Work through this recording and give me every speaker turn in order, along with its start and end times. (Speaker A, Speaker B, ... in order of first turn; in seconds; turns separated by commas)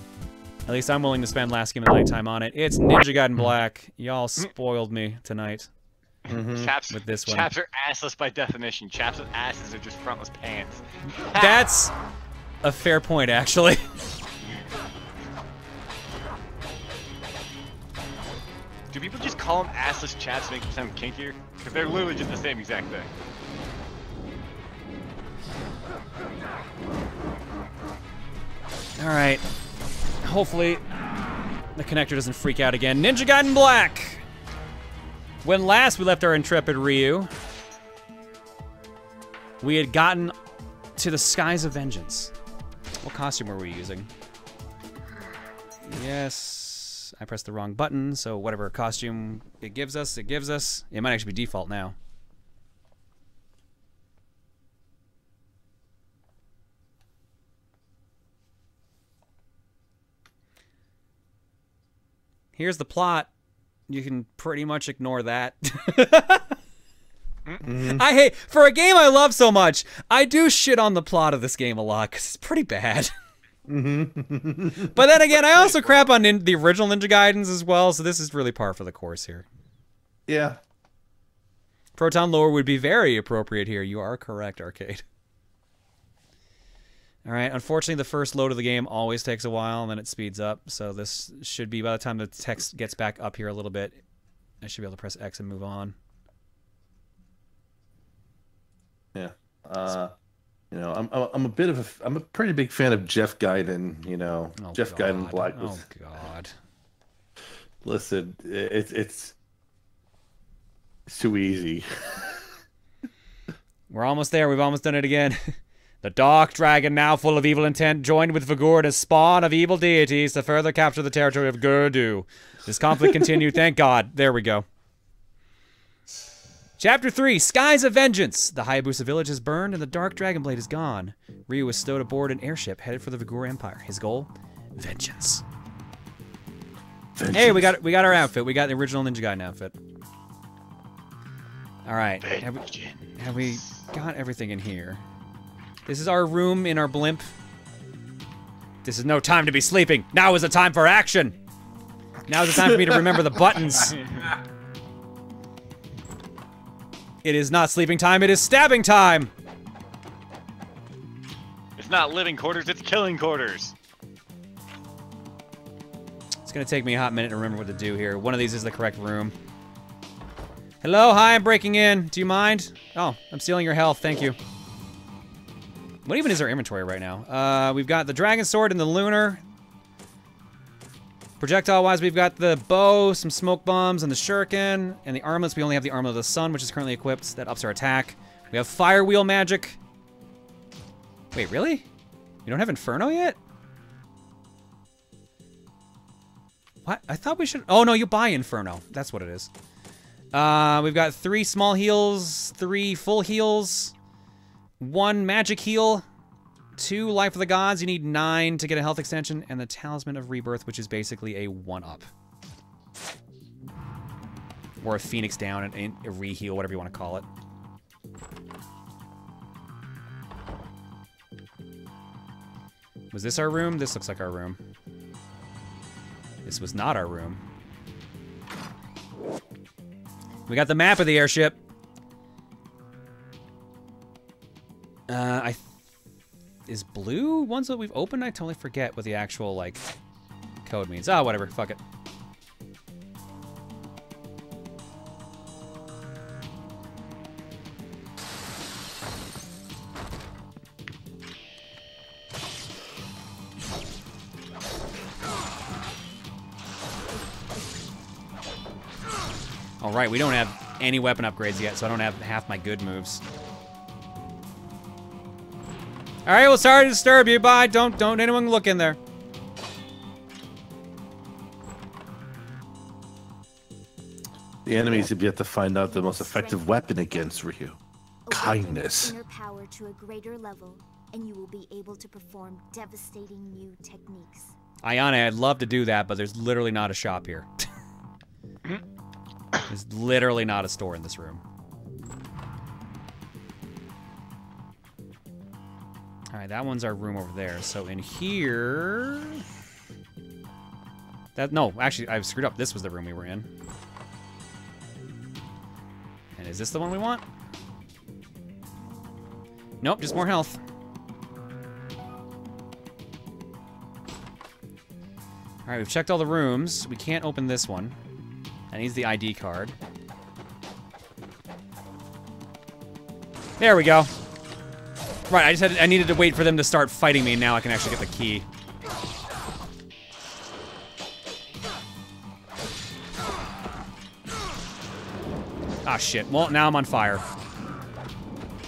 Speaker A: 0.7-5.7, Speaker B: 6.3-11.6, Speaker C: 6.3-6.7, Speaker A: 6.9-7.5, Speaker A: 11.3-11.9, Speaker A: 12.6-13.8, Speaker B: 18.9-23.1, Speaker A: 29.0-29.4, Speaker A: 30.2-30.8, Speaker A: 31.8-34.2, Speaker A: 35.4-37.3, Speaker A: 39.6-40.3, Speaker A: 41.0-42.3, Speaker A: 43.0-44.1, Speaker A: 45.9-52.0, Speaker A: 62.5-63.3, Speaker A: 63.9-66.5, Speaker C: 67.6-68.0, Speaker A: 67.8-73.1, Speaker C: 73.7-74.9, Speaker A: 74.9-79.5, Speaker B: 75.5-75.9, Speaker C: 80.3-80.6, Speaker A: 82.0-85.0, Speaker A: 87.2-94.0, Speaker A: 94.6-96.0, Speaker C: 99.1-100.1, Speaker C: 100.7-105.8, Speaker A: 104.6-106.5, Speaker C: 107.8-109.3, Speaker C: 111.1-112.3, Speaker A: 113.9-124.7, Speaker A: 126.8-135.4, Speaker C: 137.2-137.7, Speaker A: 137.3-139.7, Speaker A: 141.8-142.6, Speaker B: 142.2-143.8, Speaker A: 143.2-145.0, Speaker A: 145.9-147.3, Speaker A: 148.8-151.4, Speaker A: 152.3-154.0, Speaker C: 152.5-153.4, Speaker B: 153.7-154.3, Speaker A: 157.2-159.3, Speaker B: 161.8-163.7, Speaker A: 166.4-169.3, Speaker A: 170.8-174.4, Speaker A: 176.0-179.4, Speaker A: 181.4-189.8, Speaker A: 191.3-191.8, Speaker A: 192.4-193.4, Speaker A: 196.8-199.5, Speaker A: 200.3-203.9, Speaker A: 204.8-206.0, Speaker A: 206.8-212.1, Speaker A: 214.8-217.2, Speaker A: 223.1-224.6, Speaker A: 226.4-227.4, Speaker A: 230.5-231.6, Speaker A: 235.1-235.6, Speaker A: 236.7-239.8, Speaker A: 240.6-241.8, Speaker A: 259.8-263.2, Speaker A: 266.2-269.0, Speaker C: 274.6-277.8, Speaker D: 275.8-277.4, Speaker D: 278.2-284.5, Speaker C: 278.3-279.2, Speaker A: 284.8-287.5, Speaker A: 289.7-291.4, Speaker A: 296.3-299.4, Speaker A: 301.4-303.5, Speaker A: 306.3-307.2, Speaker A: 309.8-310.6, Speaker A: 315.6-317.9, Speaker A: 318.7-319.7, Speaker A: 323.6-324.1, Speaker A: 325.3-328.4, Speaker A: 335.8-337.2